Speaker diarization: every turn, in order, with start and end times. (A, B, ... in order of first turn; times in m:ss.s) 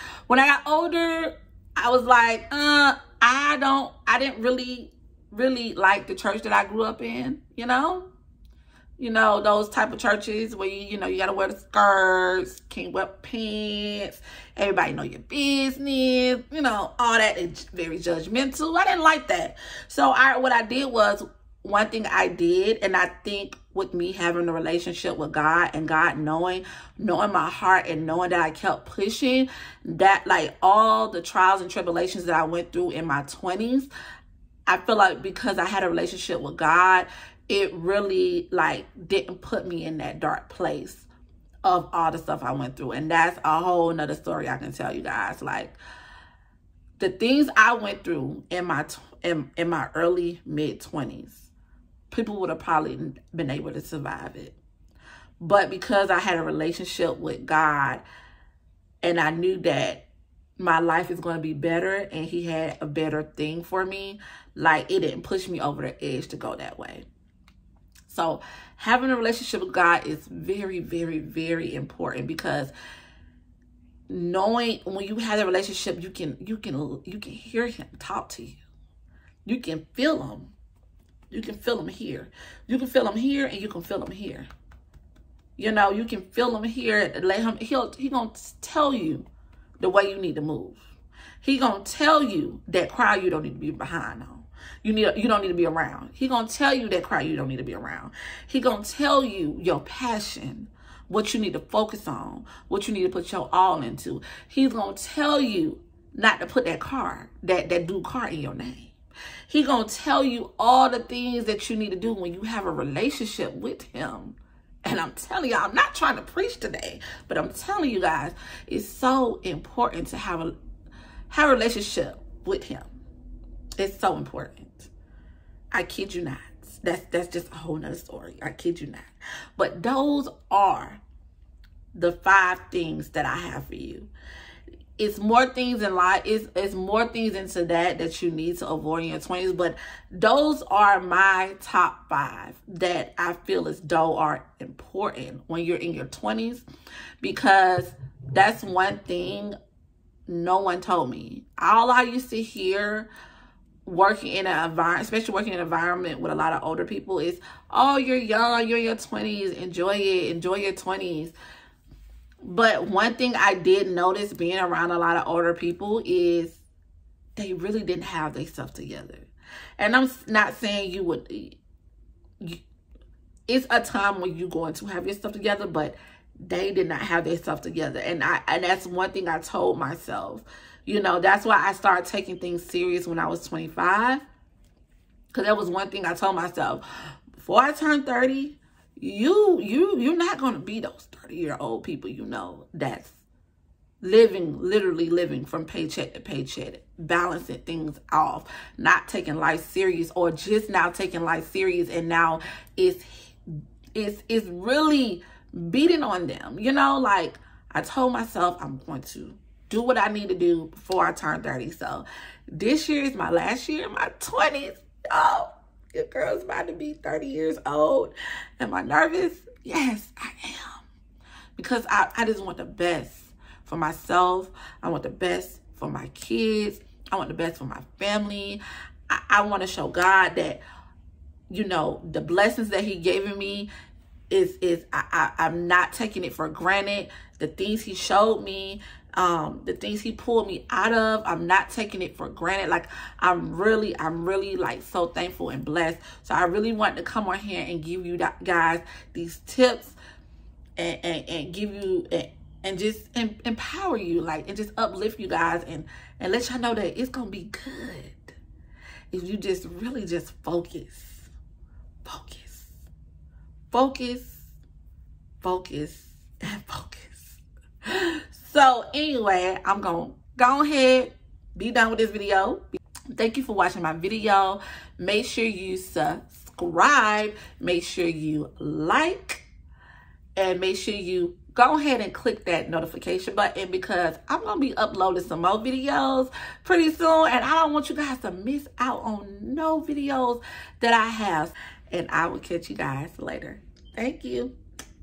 0:00.3-0:08.1 A
0:09.0-0:33.9 A
0:34.7-0:41.1 A
0:41.6-0:45.8 A
0:47.0-0:51.5 A
0:52.1-0:54.6 A
0:55.4-0:58.0 A
0:59.0-1:00.0 A
1:00.6-1:07.1 A
1:08.1-1:12.7 A
1:14.1-1:18.6 A
1:19.5-1:20.5 A
1:21.3-1:24.5 A
1:25.6-1:29.3 A
1:29.8-1:30.8 A
1:31.4-1:48.9 A
1:49.5-2:00.5 A
2:01.3-2:02.9 A
2:03.8-2:04.9 A
2:05.7-2:11.0 A
2:12.0-2:14.1 A
2:15.0-2:26.6 A
2:27.2-2:29.6 A
2:30.3-2:33.1 A
2:33.8-2:41.4 A
2:42.4-2:46.6 A
2:47.4-2:49.3 A
2:49.8-2:51.6 A
2:53.5-3:04.2 A
3:05.3-3:06.8 A
3:07.4-3:13.2 A
3:14.0-3:40.9 A
3:41.6-3:50.6 A
3:51.5-3:53.7 A
3:54.3-4:10.0 A
4:10.8-4:18.4 A
4:19.1-4:21.3 A
4:22.0-4:22.8 A
4:23.7-4:24.5 A
4:25.4-4:39.5 A
4:40.4-4:54.6 A